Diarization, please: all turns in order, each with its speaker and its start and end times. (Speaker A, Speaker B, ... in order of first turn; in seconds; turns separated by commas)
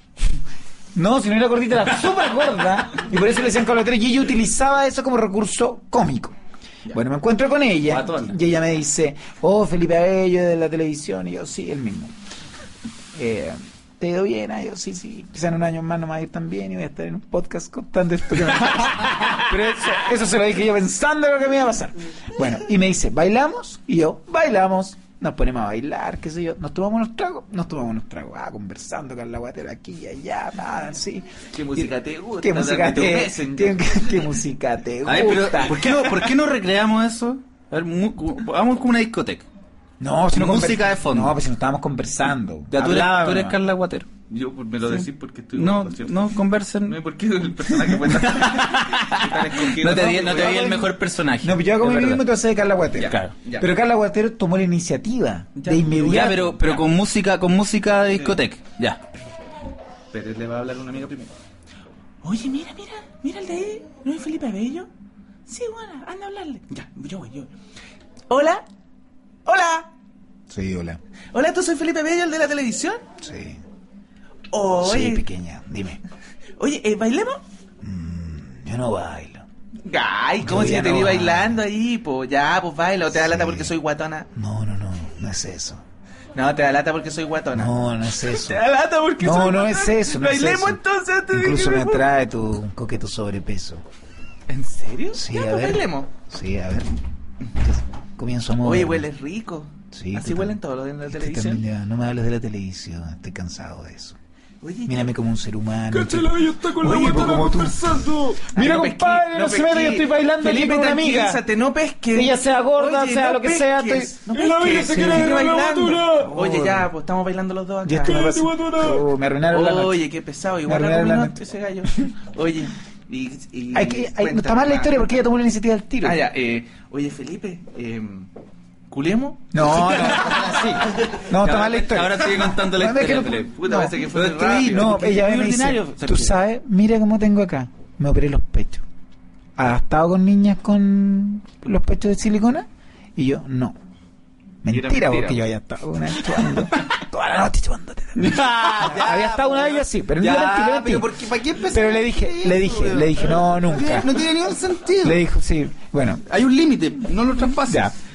Speaker A: 0.9-6.3, Speaker A: 6.9-12.1, Speaker B: 7.9-8.3, Speaker A: 13.1-35.8, Speaker C: 31.5-34.2, Speaker B: 35.0-39.5, Speaker C: 35.7-36.1, Speaker A: 40.0-43.6, Speaker B: 40.3-41.4, Speaker B: 42.7-44.1, Speaker C: 44.3-46.3, Speaker B: 45.5-47.0, Speaker C: 46.8-50.8, Speaker B: 48.1-52.3, Speaker A: 49.8-56.5, Speaker C: 53.0-53.7, Speaker B: 53.0-53.3, Speaker C: 55.5-56.8, Speaker B: 55.9-59.0, Speaker C: 58.1-58.4, Speaker C: 60.1-61.3, Speaker C: 62.2-64.9, Speaker C: 65.5-67.5, Speaker C: 68.3-68.6, Speaker C: 69.4-69.9, Speaker A: 70.5-71.0, Speaker C: 71.3-73.0, Speaker A: 73.2-73.6, Speaker C: 74.5-75.2, Speaker A: 74.8-76.0, Speaker C: 76.6-77.4, Speaker A: 77.8-79.4, Speaker C: 79.8-84.3, Speaker A: 80.4-81.6, Speaker A: 83.1-83.7, Speaker A: 84.3-85.8, Speaker C: 86.3-92.0, Speaker A: 87.5-88.6, Speaker A: 89.2-90.8, Speaker A: 91.3-93.8, Speaker C: 94.5-96.1, Speaker A: 95.1-96.9, Speaker A: 97.5-99.1, Speaker C: 98.6-101.6, Speaker A: 99.9-104.2, Speaker C: 104.6-105.1, Speaker A: 104.8-111.4, Speaker B: 105.9-108.5, Speaker C: 106.8-107.7, Speaker C: 108.5-119.0, Speaker A: 112.1-115.6, Speaker B: 114.3-116.3, Speaker A: 116.1-116.9, Speaker A: 117.8-120.0, Speaker B: 118.2-119.0, Speaker C: 119.5-125.2, Speaker A: 120.6-121.4, Speaker A: 123.7-126.2, Speaker C: 126.0-128.3, Speaker C: 128.9-131.1, Speaker A: 129.5-138.8, Speaker B: 131.2-136.4, Speaker C: 133.2-135.1, Speaker A: 139.6-143.8, Speaker A: 144.6-151.1, Speaker C: 144.7-145.5, Speaker B: 148.2-155.2, Speaker A: 151.7-154.2, Speaker A: 155.0-156.2, Speaker B: 156.2-157.9, Speaker A: 157.7-157.9